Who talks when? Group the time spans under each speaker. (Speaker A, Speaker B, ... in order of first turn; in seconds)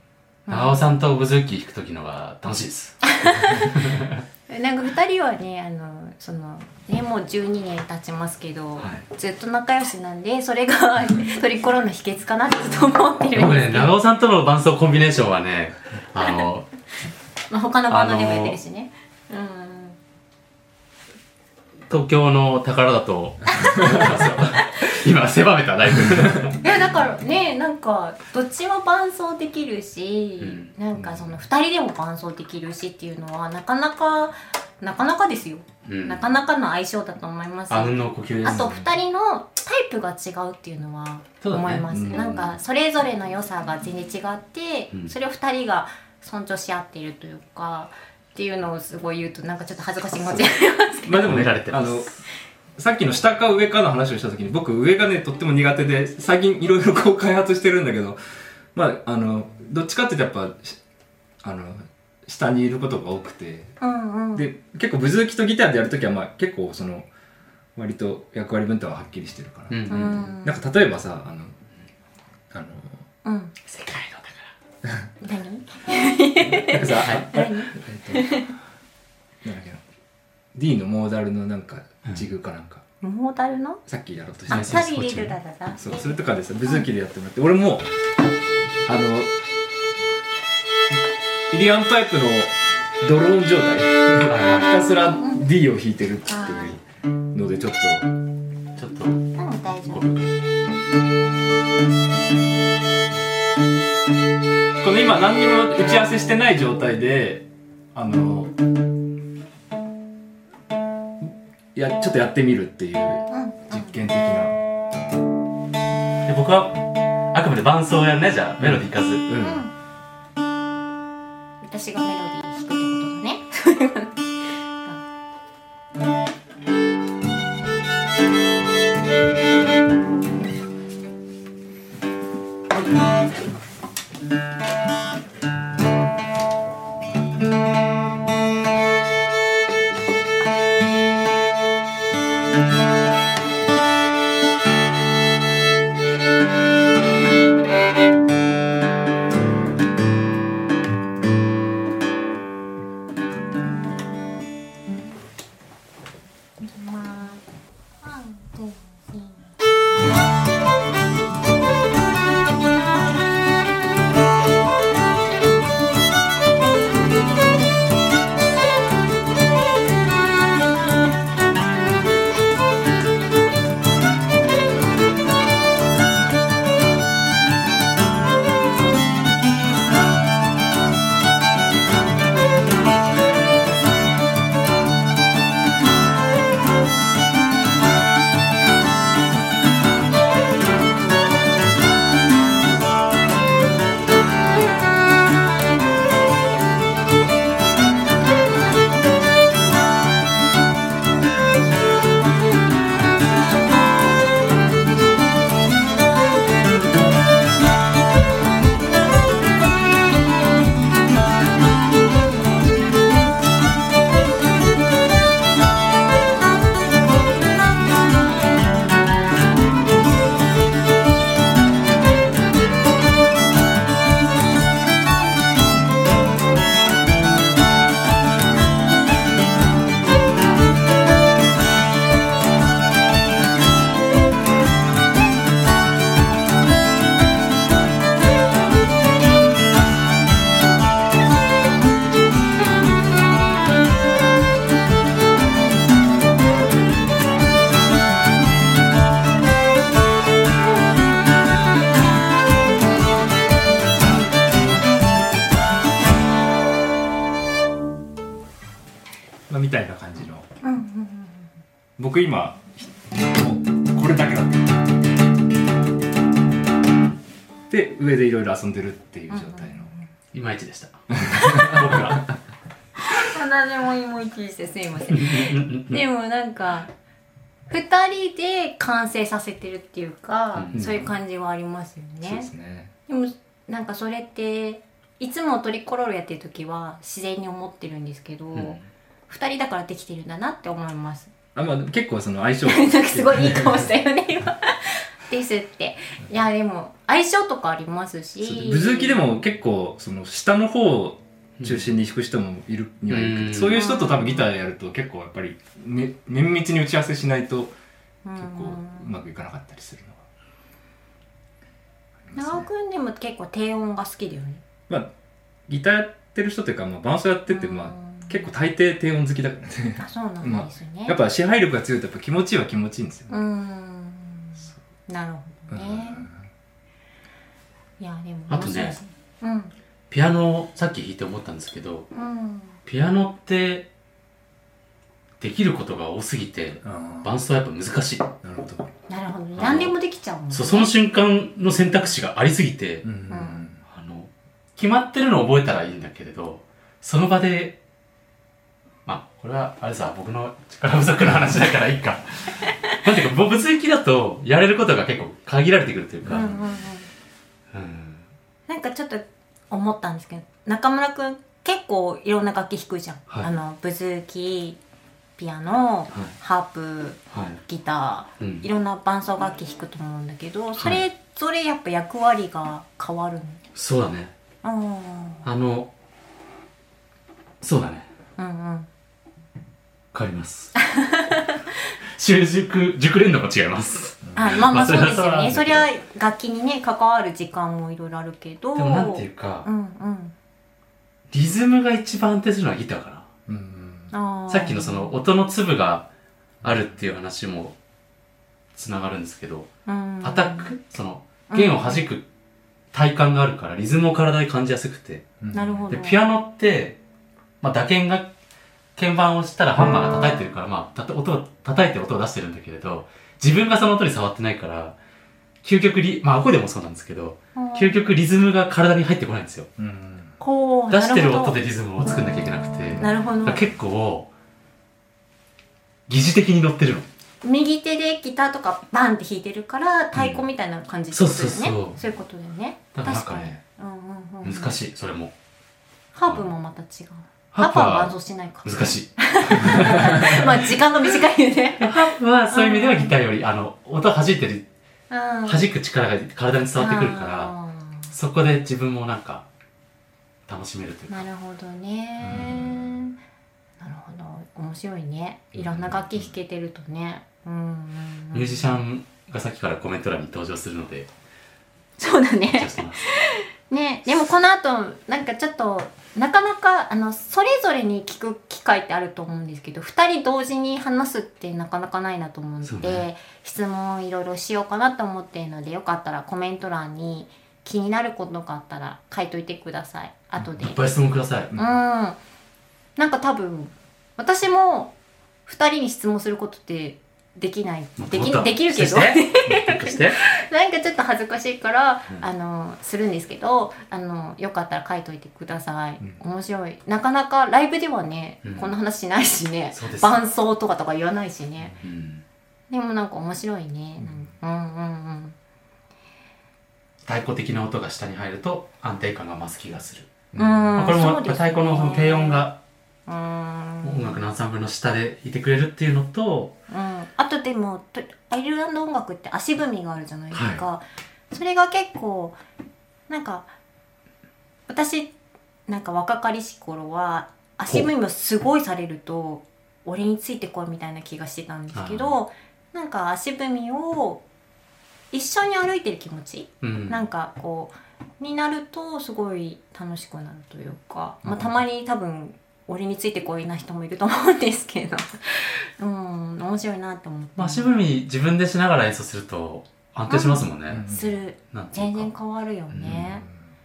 Speaker A: 0.5-0.8, 3.0-3.7, 4.5-13.9, 17.5-20.0, 23.5-24.8, 26.6-51.3, 63.8-64.5, 69.9-70.6, 73.2-73.8, 75.2-78.5, 83.0-83.8, 84.5-86.0, 95.1-95.4, 96.3-96.7, 99.3-100.2, 113.3-114.0, 119.4-119.7, 121.6-124.2, 156.6-157.4, 158.0-159.5, 260.6-261.5, 269.3-270.1, 273.0-276.9, 277.7-282.5, 283.1-288.8, 289.3-291.3, 292.6-299.2, 303.7-304.5, 308.2-309.1, 312.3-314.6, 317.5-318.5, 320.0-321.1, 323.3-326.2, 328.0-329.7, 332.1-332.8, 339.1-340.9, 343.3-343.6, 356.3-357.1, 358.7-364.8, 365.4-373.6, 374.6-375.4, 378.4-378.9, 380.8-381.6, 384.3-390.3, 394.1-395.1, 399.9-400.7, 401.5-402.0, 405.5-406.2, 417.5-418.0, 420.4-421.6, 423.0-423.7, 427.4-434.8, 436.1-443.1, 445.1-445.6, 446.8-448.1, 451.1-453.1, 453.8-458.8, 462.0-480.8, 481.6-482.2, 483.0-484.9, 485.5-501.8, 502.7-505.4, 510.4-512.5, 513.1-514.2, 516.7-522.4, 523.1-523.5, 524.7-525.1, 525.7-534.2, 535.1-547.7, 550.1-553.2
Speaker B: 0.5-4.2, 8.8-9.0, 13.3-16.7, 17.9-18.6, 21.9-26.6, 30.4-30.7, 35.8-36.2, 37.7-38.7, 41.4-42.4, 51.2-52.0, 69.7-70.3, 73.9-74.2, 77.0-77.3, 84.5-85.3, 94.3-94.8, 98.8-99.2, 99.9-100.3, 116.2-119.3, 270.3-272.2, 275.1-276.0, 280.5-280.9, 288.5-288.8, 301.6-301.9, 303.1-303.8, 328.5-329.0, 330.1-332.1, 332.9-333.9, 335.4-338.3, 339.6-339.9, 340.5-343.1, 343.9-347.8, 349.1-356.6, 357.7-358.3, 367.3-367.6, 368.4-368.6, 373.7-374.3, 375.4-375.9, 377.6-378.1, 380.1-380.7, 382.1-385.9, 388.7-389.7, 391.3-393.3, 394.5-396.1, 396.6-397.7, 398.7-399.7, 400.2-402.2, 402.9-405.3, 405.9-407.0, 407.6-408.3, 408.9-414.9, 415.6-419.7, 420.9-424.3, 426.1-427.1, 430.1-430.4, 431.1-432.0, 432.9-433.6, 434.4-435.3, 437.5-440.6, 441.8-444.6, 445.4-447.5, 448.1-449.4, 450.5-451.3, 458.3-461.1, 462.5-463.0, 472.6-473.1, 480.4-481.5, 488.0-490.2, 498.4-498.7, 499.7-500.2, 501.8-502.2, 507.1-510.1, 510.8-512.6, 513.8-516.5, 520.3-520.6, 531.7-532.2, 536.6-537.0, 547.4-552.1, 552.7-553.0
Speaker C: 23.8-24.1, 26.1-26.5, 30.9-31.4, 38.5-38.9, 41.9-42.4, 51.0-52.1, 52.8-58.2, 58.7-60.8, 61.4-63.7, 64.3-67.1, 67.8-71.5, 72.5-73.0, 74.8-75.1, 76.4-78.4, 79.4-79.8, 80.5-82.8, 83.9-84.8, 85.8-87.8, 88.8-89.3, 91.5-96.8, 97.3-98.1, 104.8-108.5, 111.2-114.6, 118.6-119.6, 259.5-260.5, 262.0-264.8, 267.7-269.9, 271.1-272.3, 280.7-281.1, 282.2-282.9, 291.5-293.9, 298.4-307.7, 308.4-310.2, 312.2-312.7, 315.7-323.3, 325.7-326.5, 336.8-337.3, 338.4-338.9, 343.0-343.8, 384.2-384.6, 393.5-394.1, 396.6-396.9, 405.4-405.9, 419.8-420.3, 452.2-452.9, 455.6-456.2, 504.0-504.3, 510.3-510.8, 541.2-541.5, 550.7-551.1, 552.9-553.4